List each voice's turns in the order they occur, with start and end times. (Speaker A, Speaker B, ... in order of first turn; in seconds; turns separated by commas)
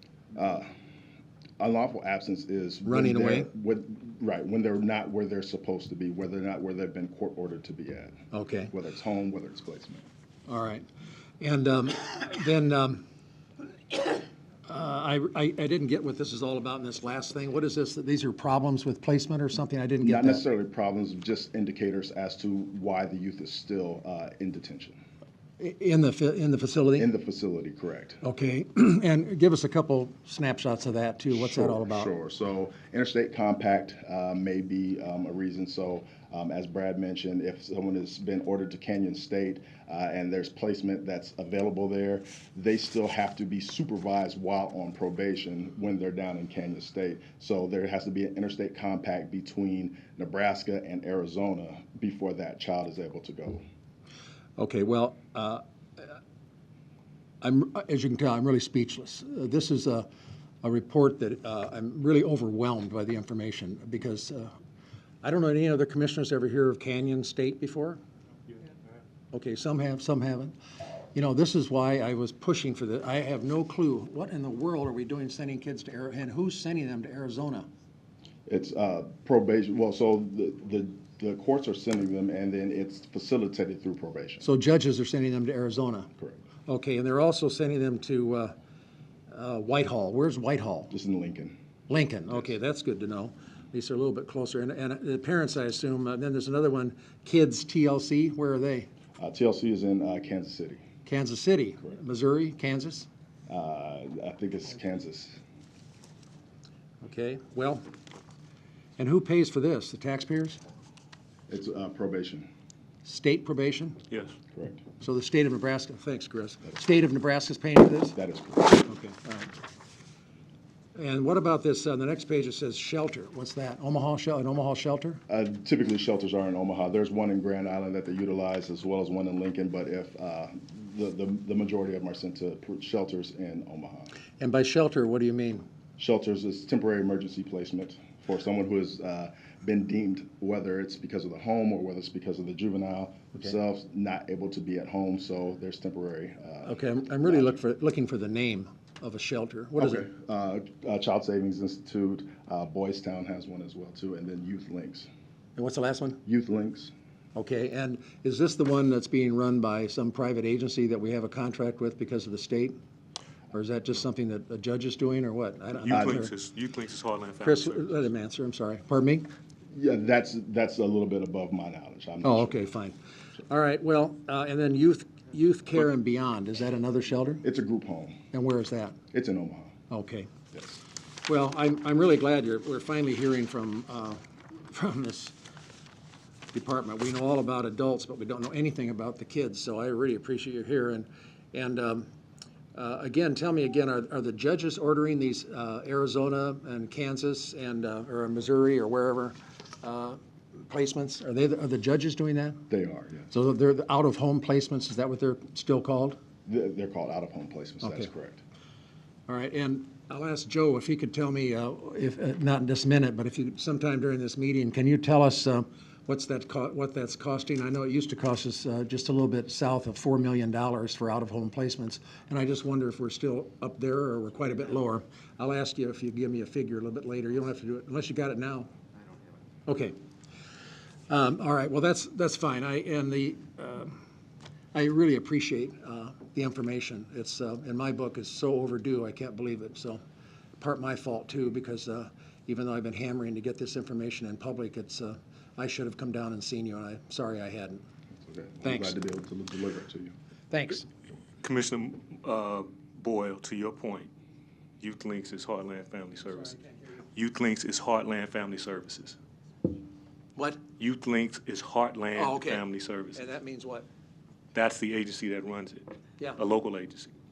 Speaker A: 0.3-0.7, Speaker A: 1.6-8.2, Speaker B: 2.8-3.5, Speaker B: 8.3-8.7, Speaker A: 8.7-10.1, Speaker B: 10.5-10.9, Speaker B: 11.4-13.0, Speaker B: 13.9-20.4, Speaker A: 20.0-25.0, Speaker B: 25.6-27.1, Speaker A: 27.0-28.2, Speaker B: 28.2-32.1, Speaker A: 31.3-53.6, Speaker B: 54.6-56.2, Speaker B: 57.4-60.1, Speaker B: 60.6-64.5, Speaker B: 65.2-68.0, Speaker B: 69.3-70.5, Speaker B: 71.1-77.7, Speaker A: 78.5-84.5, Speaker B: 84.4-86.1, Speaker B: 86.7-88.5, Speaker B: 89.3-90.9, Speaker A: 90.9-91.6, Speaker B: 91.9-98.9, Speaker A: 99.2-100.8, Speaker B: 101.0-103.1, Speaker A: 103.5-105.4, Speaker B: 107.0-107.8, Speaker B: 109.0-110.6, Speaker A: 111.5-112.5, Speaker B: 113.0-114.0, Speaker A: 114.5-114.8, Speaker B: 115.0-118.2, Speaker A: 118.1-118.9, Speaker B: 118.8-119.5, Speaker B: 120.9-125.2, Speaker A: 125.3-134.1, Speaker B: 134.4-135.6, Speaker A: 136.0-147.6, Speaker B: 146.6-150.1, Speaker A: 149.8-155.1, Speaker B: 155.6-156.2, Speaker A: 156.2-156.9, Speaker B: 157.3-162.8, Speaker B: 163.5-166.3, Speaker C: 165.9-167.8, Speaker B: 167.4-169.3, Speaker A: 169.7-172.7, Speaker B: 172.2-172.9, Speaker B: 173.5-177.4, Speaker A: 177.4-178.2, Speaker B: 178.3-179.0, Speaker A: 179.1-179.8, Speaker B: 179.9-180.3, Speaker A: 180.5-180.8, Speaker B: 181.3-185.3, Speaker B: 186.5-192.1, Speaker B: 192.7-202.6, Speaker A: 202.7-203.3, Speaker B: 203.3-206.2, Speaker A: 206.5-208.4, Speaker B: 207.8-208.1, Speaker B: 209.3-228.7, Speaker B: 229.7-230.0, Speaker B: 231.1-234.0, Speaker B: 234.7-240.0, Speaker B: 240.6-247.8, Speaker A: 248.2-250.1, Speaker B: 248.6-249.0, Speaker B: 250.5-250.8, Speaker C: 251.4-254.1, Speaker C: 254.8-256.5, Speaker B: 256.2-257.0, Speaker C: 257.1-259.1, Speaker B: 260.4-260.6, Speaker C: 260.8-263.2, Speaker B: 262.1-263.9, Speaker C: 264.5-265.9, Speaker C: 266.4-267.1